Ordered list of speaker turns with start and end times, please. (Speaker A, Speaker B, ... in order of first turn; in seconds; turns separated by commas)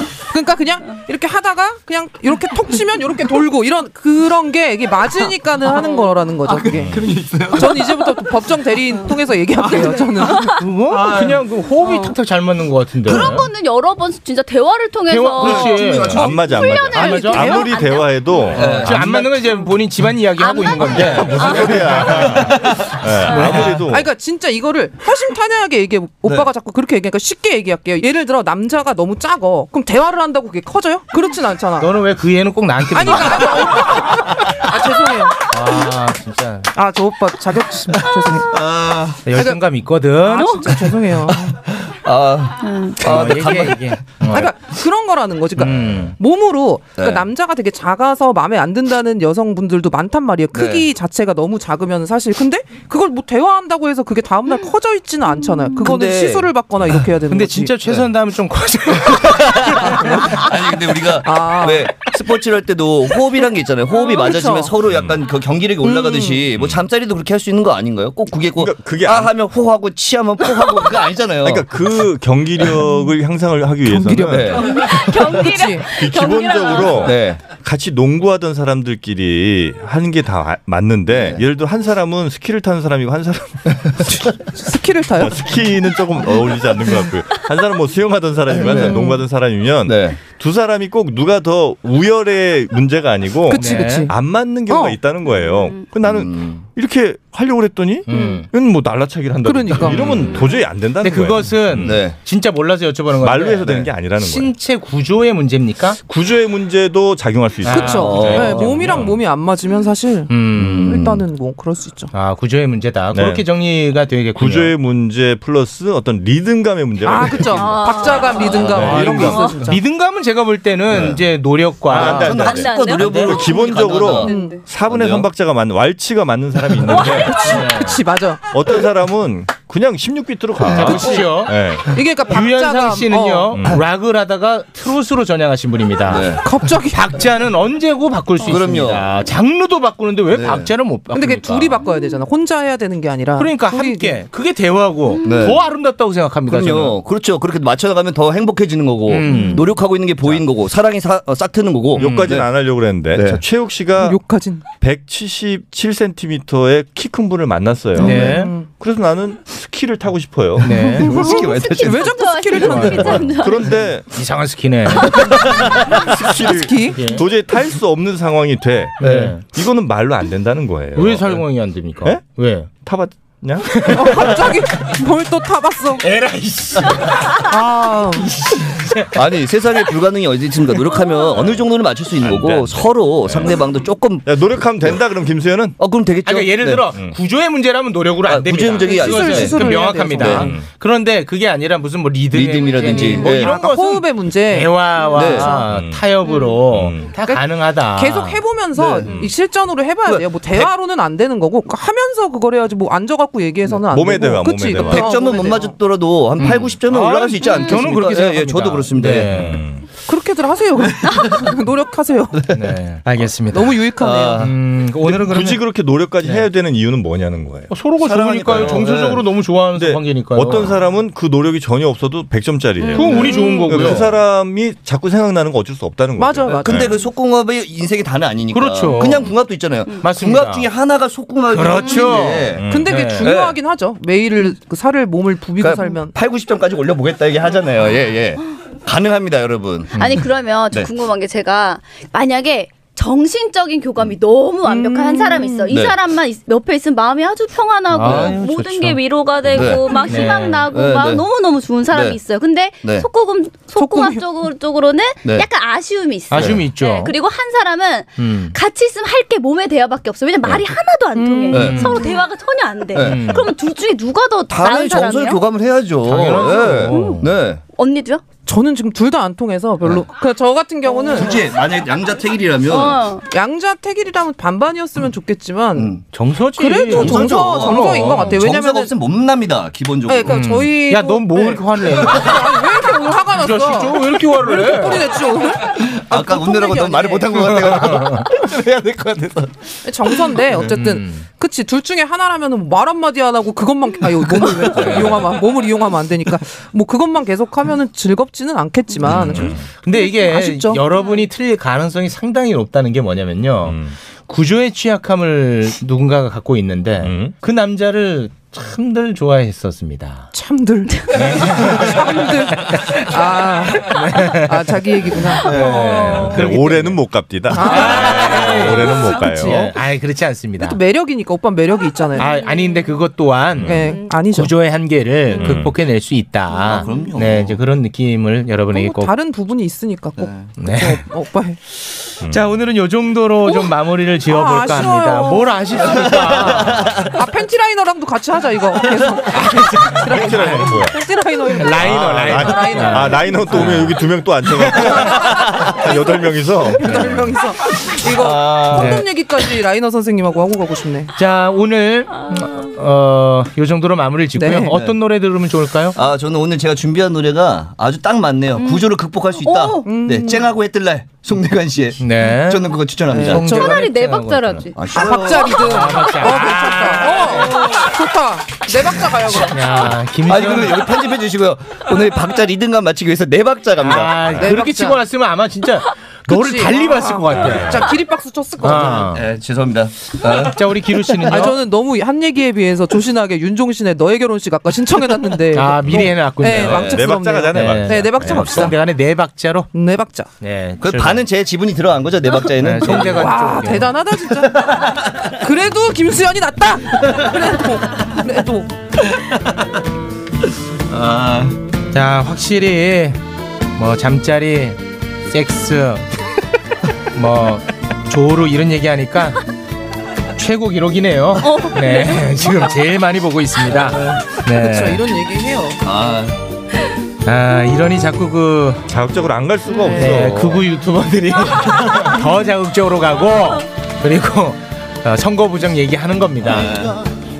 Speaker A: 0.3-10.6, Speaker B: 5.8-6.1, Speaker C: 6.5-8.0, Speaker D: 6.7-7.0, Speaker B: 9.7-10.5, Speaker E: 10.4-13.4, Speaker C: 10.9-11.4, Speaker B: 11.8-12.1, Speaker C: 13.1-13.3, Speaker B: 13.1-18.6, Speaker E: 15.1-16.2, Speaker C: 15.4-16.3, Speaker A: 16.0-17.7, Speaker D: 16.0-19.3, Speaker E: 17.0-17.3, Speaker C: 18.5-19.3, Speaker E: 18.7-22.7, Speaker B: 20.4-21.8, Speaker D: 20.9-24.1, Speaker C: 21.5-23.0, Speaker B: 23.3-23.6, Speaker E: 23.3-23.7, Speaker A: 23.7-31.9, Speaker C: 26.2-26.5, Speaker E: 31.8-33.8, Speaker A: 32.9-35.4, Speaker E: 35.5-36.7, Speaker A: 36.7-38.5, Speaker C: 37.9-39.2, Speaker E: 39.2-40.6, Speaker A: 39.3-39.6, Speaker A: 40.2-41.5, Speaker B: 40.4-40.9, Speaker C: 41.6-44.0, Speaker B: 42.6-43.0, Speaker E: 43.0-44.5, Speaker A: 44.2-57.7, Speaker E: 45.6-46.1, Speaker C: 47.0-47.3, Speaker C: 50.5-50.9, Speaker C: 55.8-57.0, Speaker E: 57.3-60.2, Speaker C: 59.1-71.7, Speaker A: 59.9-60.5, Speaker A: 61.1-61.9, Speaker A: 63.9-64.7, Speaker D: 64.9-65.2, Speaker A: 65.8-66.4, Speaker D: 66.5-66.8, Speaker D: 68.6-69.3, Speaker D: 71.4-74.6, Speaker A: 73.8-75.8, Speaker C: 74.3-75.3, Speaker B: 74.5-77.1, Speaker D: 75.9-84.2, Speaker C: 77.0-77.4, Speaker C: 81.1-81.4, Speaker C: 83.9-84.2, Speaker A: 84.6-85.3, Speaker D: 85.2-102.0, Speaker C: 88.5-89.1, Speaker A: 88.6-89.2, Speaker C: 89.8-90.2, Speaker E: 93.5-94.1, Speaker A: 93.5-94.1, Speaker A: 94.7-95.0, Speaker C: 96.0-96.6, Speaker E: 98.0-98.5, Speaker A: 98.1-98.4, Speaker A: 99.4-100.4, Speaker E: 101.0-106.0, Speaker C: 101.8-102.2, Speaker D: 103.2-104.5, Speaker C: 103.6-103.9, Speaker D: 106.0-109.0, Speaker E: 107.6-109.1, Speaker A: 107.7-110.3, Speaker C: 108.0-109.0, Speaker E: 110.3-111.0, Speaker C: 110.5-111.2, Speaker A: 110.8-112.1, Speaker E: 112.1-114.7, Speaker D: 113.1-113.5, Speaker D: 114.3-119.5, Speaker A: 117.0-119.8, Speaker B: 117.5-119.6, Speaker C: 118.5-119.0, Speaker E: 118.8-123.3, Speaker C: 120.9-121.2, Speaker C: 121.9-124.3, Speaker D: 121.9-127.5, Speaker B: 122.0-124.6, Speaker A: 124.3-124.6, Speaker C: 124.9-125.3, Speaker A: 127.1-128.5, Speaker E: 127.3-128.0, Speaker D: 128.5-132.0, Speaker E: 130.6-131.6, Speaker A: 130.8-133.6, Speaker E: 132.3-136.4, Speaker C: 136.1-136.4, Speaker A: 136.4-137.1, Speaker E: 136.9-141.8, Speaker C: 138.4-139.1, Speaker C: 140.3-140.7, Speaker A: 141.1-144.2, Speaker E: 143.4-147.0, Speaker C: 145.2-145.6, Speaker C: 146.5-152.5, Speaker E: 149.1-149.7, Speaker E: 151.9-152.4, Speaker D: 151.9-154.2, Speaker C: 153.1-153.4, Speaker A: 154.0-154.7, Speaker D: 154.8-160.8, Speaker A: 157.9-158.7, Speaker E: 158.0-158.5, Speaker C: 160.6-163.2, Speaker E: 160.6-161.1, Speaker A: 160.9-163.4, Speaker B: 161.8-163.8, Speaker E: 162.7-163.2, Speaker D: 163.3-164.1, Speaker E: 164.1-165.2, Speaker C: 165.2-166.0, Speaker D: 165.4-171.4, Speaker A: 166.4-167.2, Speaker E: 166.9-167.2, Speaker E: 169.0-169.4, Speaker C: 169.0-169.3, Speaker E: 170.9-172.7, Speaker D: 172.0-174.5, Speaker E: 173.7-174.3, Speaker A: 173.9-176.0, Speaker E: 176.0-177.2, Speaker A: 177.4-178.3, Speaker E: 178.2-179.1, Speaker C: 179.1-185.0, Speaker D: 182.2-183.5, Speaker D: 184.2-185.8, Speaker C: 185.8-186.8, Speaker E: 186.2-198.4, Speaker C: 188.2-190.6, Speaker A: 188.8-190.5, Speaker C: 192.3-193.5, Speaker A: 192.8-195.6, Speaker C: 195.1-195.6, Speaker D: 195.7-196.1, Speaker D: 196.7-197.2, Speaker A: 197.2-205.8, Speaker C: 199.0-199.3, Speaker D: 203.9-205.2, Speaker C: 204.8-209.5, Speaker E: 206.4-209.6, Speaker D: 209.3-209.8, Speaker A: 210.0-212.4, Speaker C: 211.0-211.5, Speaker E: 212.5-213.8, Speaker A: 213.5-214.5, Speaker C: 213.9-214.5, Speaker E: 214.4-215.6, Speaker D: 215.1-217.7, Speaker E: 216.2-216.5, Speaker E: 217.7-220.8, Speaker C: 218.0-219.3, Speaker D: 218.5-218.9, Speaker D: 219.7-226.9, Speaker B: 222.8-223.6, Speaker E: 222.9-224.1, Speaker C: 223.0-224.0, Speaker A: 226.2-227.0, Speaker C: 226.4-232.7, Speaker E: 228.5-229.3, Speaker E: 230.0-230.7, Speaker E: 231.5-233.3, Speaker D: 232.6-232.9, Speaker A: 232.7-236.1, Speaker C: 233.2-233.6, Speaker C: 235.6-240.9, Speaker B: 239.9-265.4, Speaker A: 244.7-245.7, Speaker C: 245.7-245.9, Speaker E: 247.9-250.7, Speaker C: 248.0-248.3, Speaker C: 249.5-250.2, Speaker C: 250.7-251.2, Speaker C: 251.9-252.2, Speaker A: 253.8-254.2, Speaker E: 256.3-257.1, Speaker C: 256.3-256.6, Speaker E: 258.2-258.5, Speaker A: 261.1-262.1, Speaker C: 261.5-261.9, Speaker E: 261.5-262.0, Speaker C: 262.9-263.2, Speaker E: 263.0-263.5, Speaker C: 264.5-267.6, Speaker E: 266.0-267.3, Speaker B: 266.9-268.2, Speaker A: 268.4-271.4, Speaker C: 271.1-273.0, Speaker B: 272.6-273.2, Speaker A: 273.3-275.9, Speaker C: 275.7-276.0, Speaker E: 276.1-278.4, Speaker A: 276.5-278.9, Speaker C: 276.9-280.4, Speaker A: 280.1-287.5, Speaker E: 280.3-282.4, Speaker E: 283.4-285.1, Speaker C: 285.9-289.5, Speaker E: 287.5-288.2, Speaker A: 289.8-300.8, Speaker E: 290.7-291.2, Speaker C: 294.6-295.1, Speaker D: 299.0-299.7, Speaker E: 299.1-310.3, Speaker D: 303.6-303.9, Speaker D: 307.0-307.3, Speaker A: 310.3-315.6, Speaker E: 311.1-313.1, Speaker E: 313.8-314.7, Speaker E: 315.4-320.8, Speaker B: 315.4-316.3, Speaker D: 315.6-319.7, Speaker A: 317.5-319.7, Speaker A: 320.6-322.3, Speaker E: 322.2-329.1, Speaker B: 322.3-322.8, Speaker D: 323.6-323.9, Speaker A: 323.6-324.5, Speaker B: 323.9-324.1, Speaker D: 325.3-325.8, Speaker C: 326.6-327.6, Speaker A: 328.7-331.6, Speaker C: 330.2-330.5, Speaker E: 330.6-331.0, Speaker D: 332.2-332.5, Speaker E: 332.3-337.0, Speaker A: 333.4-333.7, Speaker A: 334.2-343.9, Speaker D: 336.7-337.0, Speaker C: 336.7-337.1, Speaker E: 339.3-340.8, Speaker D: 340.1-341.0, Speaker E: 341.6-345.2, Speaker D: 341.7-347.4, Speaker A: 345.6-346.2, Speaker A: 346.8-351.1, Speaker E: 346.8-347.2, Speaker C: 348.0-349.0, Speaker E: 348.7-349.0, Speaker E: 351.1-356.0, Speaker A: 354.3-354.8, Speaker C: 354.7-355.0, Speaker C: 355.9-363.6, Speaker B: 358.6-359.9, Speaker A: 359.8-360.4, Speaker E: 362.0-362.7, Speaker A: 363.1-363.9, Speaker E: 363.3-364.7, Speaker B: 363.4-365.9, Speaker C: 364.7-365.8, Speaker A: 364.9-369.9, Speaker E: 365.5-367.7, Speaker E: 369.5-370.8, Speaker C: 370.3-374.5, Speaker E: 373.8-377.8, Speaker A: 374.4-375.0, Speaker A: 376.3-379.1, Speaker E: 378.6-379.2, Speaker C: 379.1-381.5, Speaker E: 380.4-381.6, Speaker A: 381.3-388.7, Speaker E: 385.5-389.7, Speaker D: 385.9-388.7, Speaker C: 386.6-387.0, Speaker A: 389.7-390.3, Speaker E: 390.4-391.2, Speaker C: 390.8-393.6, Speaker E: 392.6-393.9, Speaker A: 393.0-394.7, Speaker C: 394.4-395.3, Speaker A: 395.4-398.7, Speaker C: 399.1-399.7, Speaker C: 400.9-401.6, Speaker E: 401.9-403.2, Speaker E: 403.8-406.1, Speaker E: 407.1-409.4, Speaker E: 410.4-415.0, Speaker B: 411.4-412.1, Speaker A: 411.9-412.8, Speaker C: 413.8-414.2, Speaker A: 414.4-415.8, Speaker C: 415.8-416.4, Speaker E: 417.2-418.9, Speaker D: 418.9-420.7, Speaker E: 419.9-426.8, Speaker C: 426.4-427.0